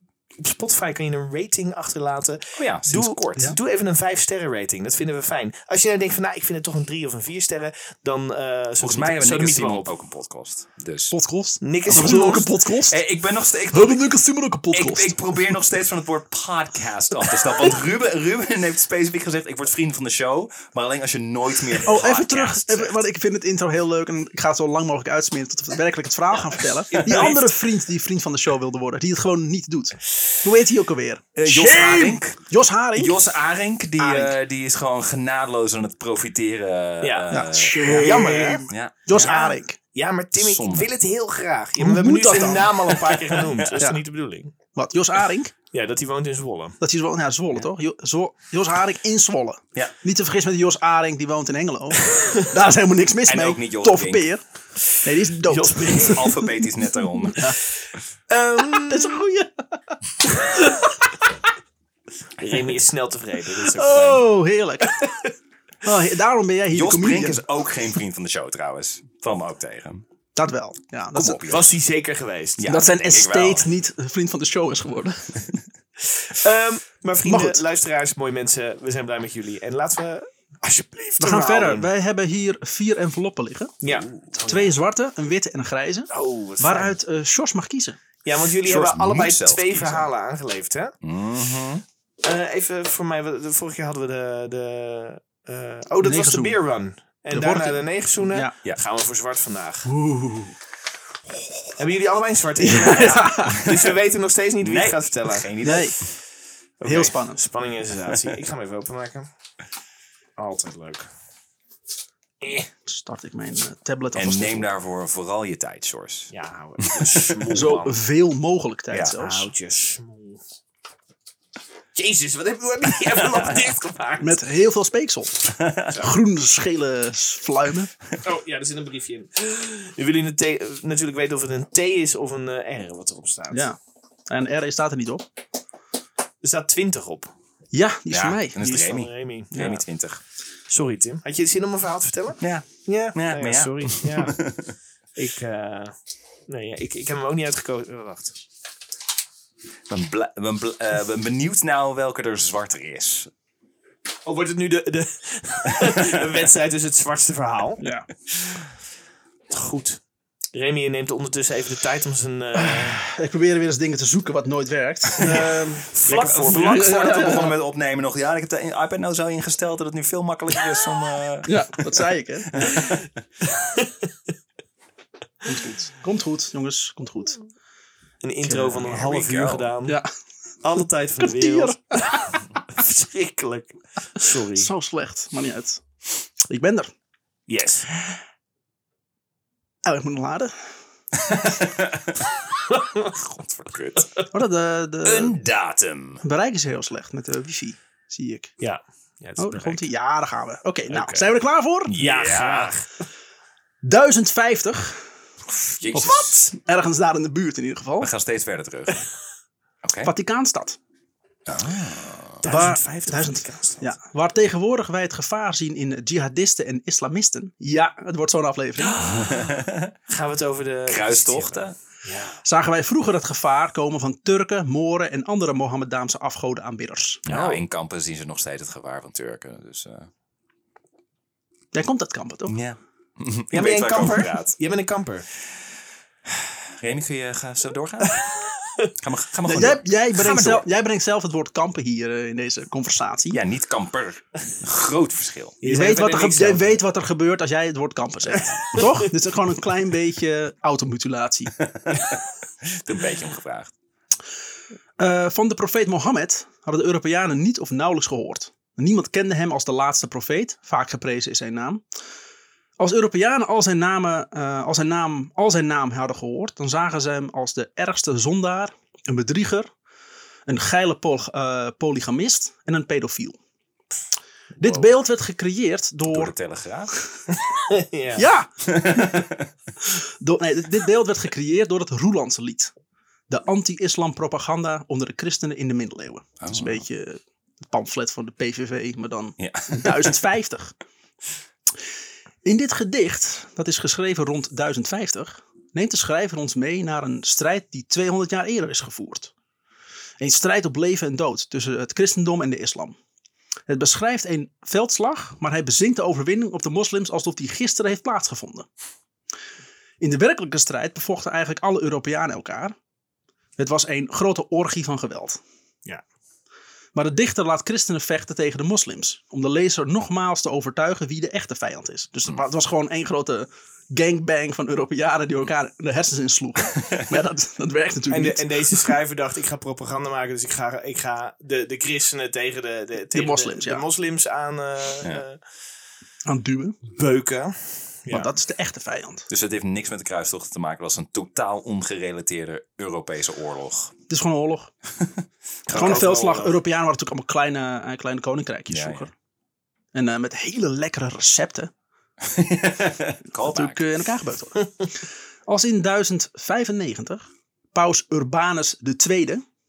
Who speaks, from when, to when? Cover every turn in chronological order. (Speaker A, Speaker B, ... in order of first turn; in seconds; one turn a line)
Speaker A: 0.4-9.9
Speaker B: 2.6-3.5
Speaker B: 8.8-11.1
Speaker C: 11.1-13.0
Speaker A: 11.6-12.5
Speaker B: 11.8-14.0
Speaker C: 13.7-15.3
Speaker B: 14.7-23.0
Speaker C: 21.8-33.2
Speaker B: 26.9-27.4
Speaker A: 27.0-27.4
Speaker B: 31.4-32.4
Speaker B: 33.0-39.2
Speaker C: 34.0-34.3
Speaker A: 37.0-37.3
Speaker C: 37.3-39.8
Speaker A: 37.9-44.5
Speaker B: 40.3-40.9
Speaker C: 41.8-42.9
Speaker B: 42.9-43.7
Speaker C: 44.7-45.5
Speaker A: 45.7-46.8
Speaker C: 46.8-54.4
Speaker A: 52.1-52.4
Speaker B: 53.3-54.2
Speaker C: 55.0-56.3
Speaker A: 55.4-56.5
Speaker B: 56.0-57.4
Speaker C: 57.3-57.6
Speaker A: 58.3-59.2
Speaker C: 58.8-59.6
Speaker C: 60.5-61.1
Speaker A: 62.4-64.2
Speaker C: 63.6-65.0
Speaker A: 64.8-65.3
Speaker C: 65.8-67.4
Speaker B: 66.7-70.0
Speaker C: 70.3-71.5
Speaker B: 71.1-71.7
Speaker A: 71.5-72.6
Speaker B: 72.6-73.7
Speaker C: 72.7-75.3
Speaker A: 76.3-81.9
Speaker C: 77.2-77.6
Speaker C: 81.2-83.7
Speaker A: 83.8-84.7
Speaker C: 84.3-88.0
Speaker A: 86.1-87.0
Speaker A: 88.2-90.9
Speaker B: 88.6-90.1
Speaker B: 91.0-91.8
Speaker A: 92.2-99.9
Speaker C: 96.0-96.6
Speaker C: 97.3-98.5
Speaker C: 99.8-100.5
Speaker A: 101.8-105.5
Speaker C: 102.6-103.6
Speaker B: 103.5-103.9
Speaker B: 104.6-105.9
Speaker C: 105.6-106.0
Speaker A: 106.8-109.3
Speaker C: 106.8-107.4
Speaker A: 110.4-111.1
Speaker A: 112.4-112.7
Speaker C: 112.8-114.7
Speaker B: 114.1-117.5
Speaker A: 116.3-118.0
Speaker C: 117.5-119.5
Speaker B: 118.9-119.2
Speaker A: 119.1-120.4
Speaker A: 121.9-124.4
Speaker C: 124.2-127.9
Speaker B: 125.5-126.0
Speaker A: 128.2-133.7
Speaker C: 133.5-133.8
Speaker C: 134.3-135.2
Speaker A: 136.4-137.3
Speaker C: 137.7-138.9
Speaker B: 138.1-140.2
Speaker A: 138.7-139.8
Speaker C: 139.5-139.8
Speaker A: 140.7-144.4
Speaker B: 142.4-144.7
Speaker A: 145.2-145.9
Speaker A: 146.5-148.4
Speaker B: 149.9-153.3
Speaker A: 154.2-157.8
Speaker C: 157.8-158.1
Speaker A: 159.5-160.0
Speaker A: 160.5-163.0
Speaker C: 162.6-165.8
Speaker B: 165.2-173.0
Speaker A: 165.2-167.5
Speaker C: 166.6-167.5
Speaker C: 171.4-172.8
Speaker A: 172.7-174.1
Speaker C: 175.4-177.4
Speaker A: 178.2-180.0
Speaker C: 178.4-178.8
Speaker B: 178.8-179.7
Speaker A: 180.6-184.7
Speaker C: 181.2-182.4
Speaker C: 184.5-185.8
Speaker C: 186.4-186.9
Speaker A: 187.5-187.9
Speaker C: 189.8-190.5
Speaker B: 191.1-192.3
Speaker A: 192.7-193.1
Speaker B: 193.2-194.2
Speaker C: 194.3-195.4
Speaker B: 195.0-196.2
Speaker C: 196.2-198.5
Speaker A: 198.6-199.8
Speaker C: 199.4-201.9
Speaker A: 200.9-201.3
Speaker B: 201.9-202.7
Speaker A: 201.9-202.9
Speaker C: 203.8-205.1
Speaker B: 205.6-206.4
Speaker C: 205.9-208.1
Speaker B: 208.0-209.0
Speaker B: 209.8-210.1
Speaker C: 210.0-210.8
Speaker B: 211.4-212.5
Speaker A: 212.4-213.9
Speaker C: 212.4-219.4
Speaker B: 218.9-219.9
Speaker A: 220.1-222.4
Speaker B: 220.9-221.7
Speaker C: 222.4-227.2
Speaker B: 227.3-230.1
Speaker A: 227.3-227.6
Speaker C: 231.7-232.5
Speaker B: 232.5-234.5
Speaker A: 233.5-235.2
Speaker B: 236.2-238.2
Speaker A: 238.0-238.9
Speaker B: 239.0-240.7
Speaker C: 239.4-243.4
Speaker B: 243.3-245.6
Speaker A: 245.6-246.7
Speaker C: 245.6-251.5
Speaker B: 251.7-253.7
Speaker C: 255.0-261.8
Speaker C: 262.8-269.7
Speaker C: 270.5-273.4
Speaker C: 274.6-276.3
Speaker B: 274.6-274.9
Speaker B: 276.1-276.9
Speaker A: 277.3-278.2
Speaker C: 278.1-279.1
Speaker B: 278.6-279.5
Speaker C: 279.9-282.7
Speaker C: 283.3-290.8
Speaker B: 286.4-286.8
Speaker B: 289.4-290.1
Speaker C: 292.4-299.3
Speaker C: 300.2-303.0
Speaker C: 303.7-308.7
Speaker C: 310.0-312.8
Speaker C: 313.6-315.4
Speaker C: 316.9-328.9
Speaker A: 328.1-335.4
Speaker C: 333.1-333.8
Speaker C: 336.2-336.8
Speaker A: 336.9-338.3
Speaker C: 338.1-339.3
Speaker B: 339.3-343.9
Speaker C: 344.1-344.7
Speaker A: 345.7-346.6
Speaker C: 345.7-349.1
Speaker B: 348.7-349.1
Speaker C: 349.9-351.7
Speaker B: 352.2-353.8
Speaker C: 353.4-354.9
Speaker C: 355.5-359.4